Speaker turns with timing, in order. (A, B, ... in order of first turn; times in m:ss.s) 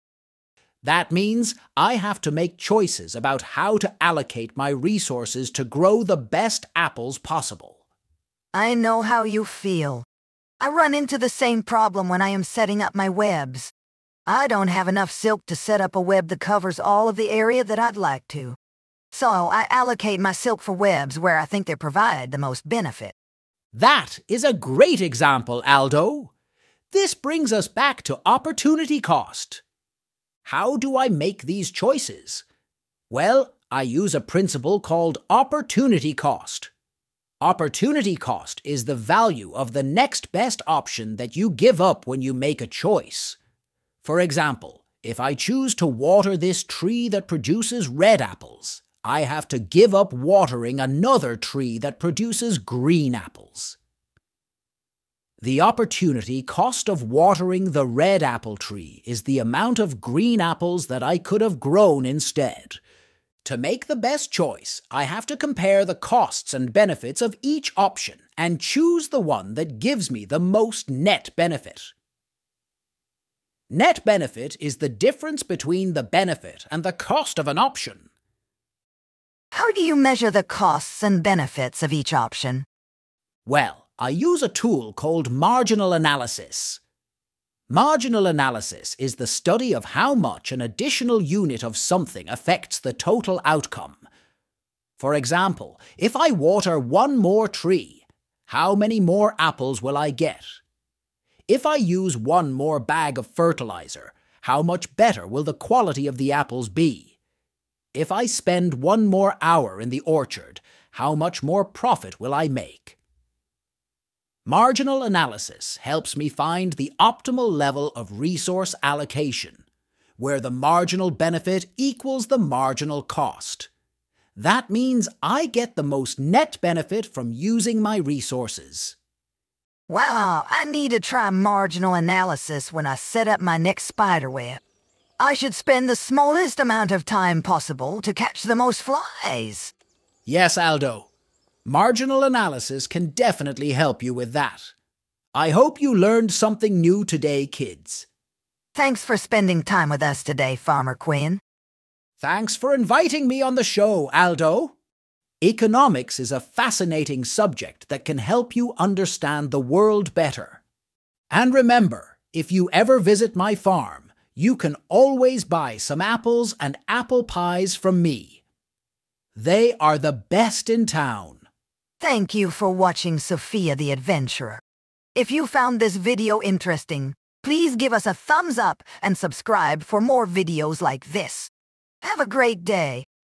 0:00.8-0:07.8 A
0:08.5-0:10.1 B
0:10.6-0:13.7 B
0:14.3-0:18.6 B
0:19.1-0:23.2 B
0:23.7-0:26.3 A
0:26.9-0:29.6 A
0:30.4-0:32.4 A
0:33.1-0:36.7 A
0:37.4-0:43.4 A
0:44.0-0:53.8 A
0:55.4-1:02.8 A
1:03.4-1:11.9 A
1:13.7-1:18.1 A
1:19.5-1:22.7 B
1:23.5-1:26.8 A
1:27.7-1:34.0 A
1:35.0-1:40.6 A
1:41.5-1:47.1 A
1:47.9-1:53.0 A
1:54.5-1:59.6 A
2:00.2-2:03.7 A
2:04.4-2:09.0 A
2:09.9-2:14.6 B
2:15.2-2:19.7 B
2:20.3-2:21.1 A
2:21.6-2:24.7 A
2:25.3-2:28.1 A
2:28.8-2:31.4 B
2:32.2-2:34.8 A
2:35.4-2:40.6 A
2:41.3-2:48.4 A
2:49.4-2:51.5 A
2:52.0-2:54.6 B
2:55.2-3:01.5 B
3:02.0-3:03.1 B